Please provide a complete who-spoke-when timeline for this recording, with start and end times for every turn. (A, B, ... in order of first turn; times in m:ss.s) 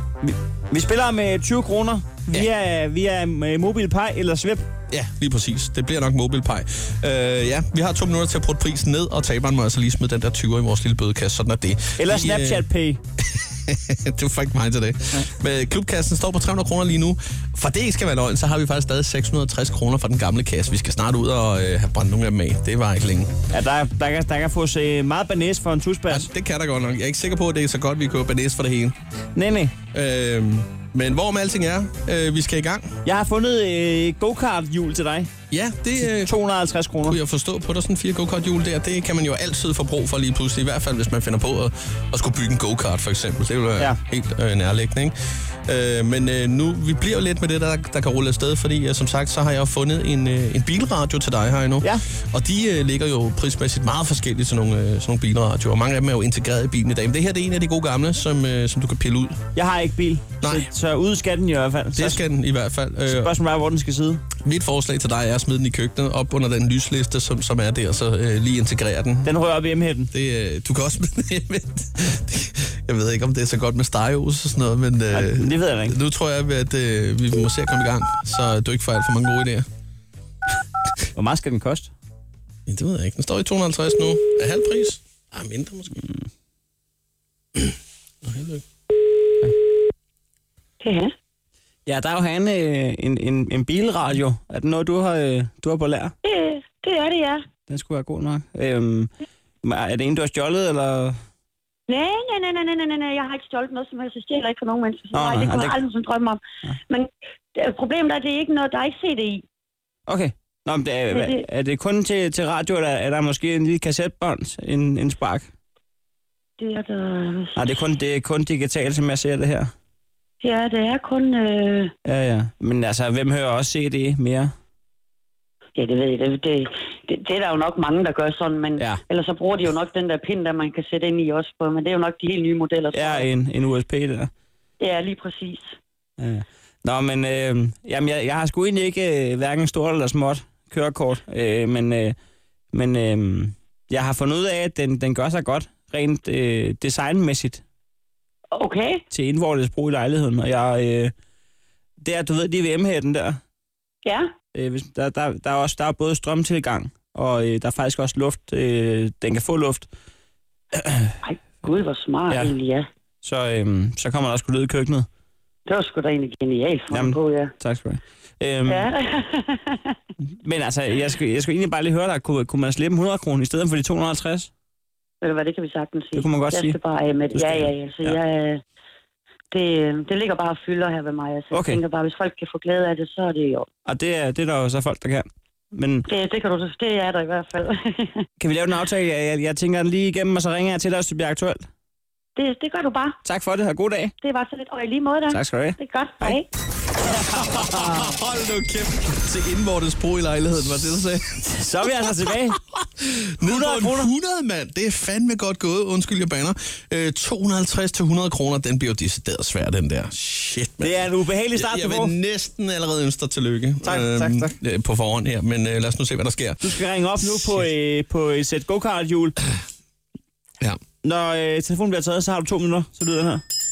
0:00.2-0:04.6 A
0:04.9-0:12.6 B
0:12.0-0:13.0 A
0:13.2-0:23.3 B
0:23.5-0:26.3 A
0:26.1-0:28.9 B
0:29.3-0:29.7 A
0:29.9-0:32.9 B
0:33.0-0:35.3 A
0:35.5-0:36.3 B
0:36.0-0:37.2 A
0:37.0-0:45.1 B
0:45.6-0:59.4 B
0:59.5-1:02.2 A
1:00.4-1:00.7 B
1:01.9-1:03.3 B
1:03.1-1:04.2 A
1:04.4-1:09.3 B
1:09.2-1:10.1 A
1:10.1-1:19.6 B
1:15.1-1:16.0 A
1:21.1-1:21.9 A
1:22.7-1:26.0 B
1:28.2-1:28.6 B
1:30.8-1:31.1 C
1:31.8-1:36.1 A
1:36.2-1:37.4 C
1:37.7-1:39.1 A
1:39.6-1:41.2 A
1:41.9-1:49.4 C
1:45.1-1:45.8 A
1:50.1-1:55.5 A
1:51.1-1:51.4 C
1:56.6-1:57.5 C
1:57.6-1:59.7 A
2:00.4-2:01.9 C
2:02.0-2:04.5 A
2:05.8-2:13.3 C
2:12.9-2:14.3 A
2:14.8-2:15.6 C
2:16.2-2:22.2 A
2:22.7-2:27.6 A
2:28.5-2:29.0 C
2:29.1-2:31.1 A
2:32.0-2:33.4 A
2:34.5-2:39.9 A
2:41.2-2:42.9 C
2:42.3-2:42.6 A
2:43.2-2:45.1 A
2:45.6-2:47.5 C
2:46.9-2:48.9 A
2:48.6-2:49.9 C
2:50.4-2:54.5 A
2:55.2-2:58.6 C
2:56.1-2:56.8 A
2:57.3-2:58.2 A
2:59.5-3:03.7 C
3:01.5-3:01.8 A
3:03.8-3:06.1 A
3:06.1-3:08.2 C
3:08.4-3:11.7 A
3:12.4-3:13.2 C
3:13.2-3:14.1 A
3:14.2-3:16.5 C
3:15.3-3:16.4 A
3:17.2-3:18.1 A
3:17.3-3:21.5 B
3:21.4-3:22.6 A
3:23.0-3:36.6 B
3:23.4-3:24.1 A
3:30.8-3:32.2 A
3:33.8-3:34.6 A
3:36.6-3:39.4 A
3:37.2-3:37.6 B
3:41.0-3:43.4 A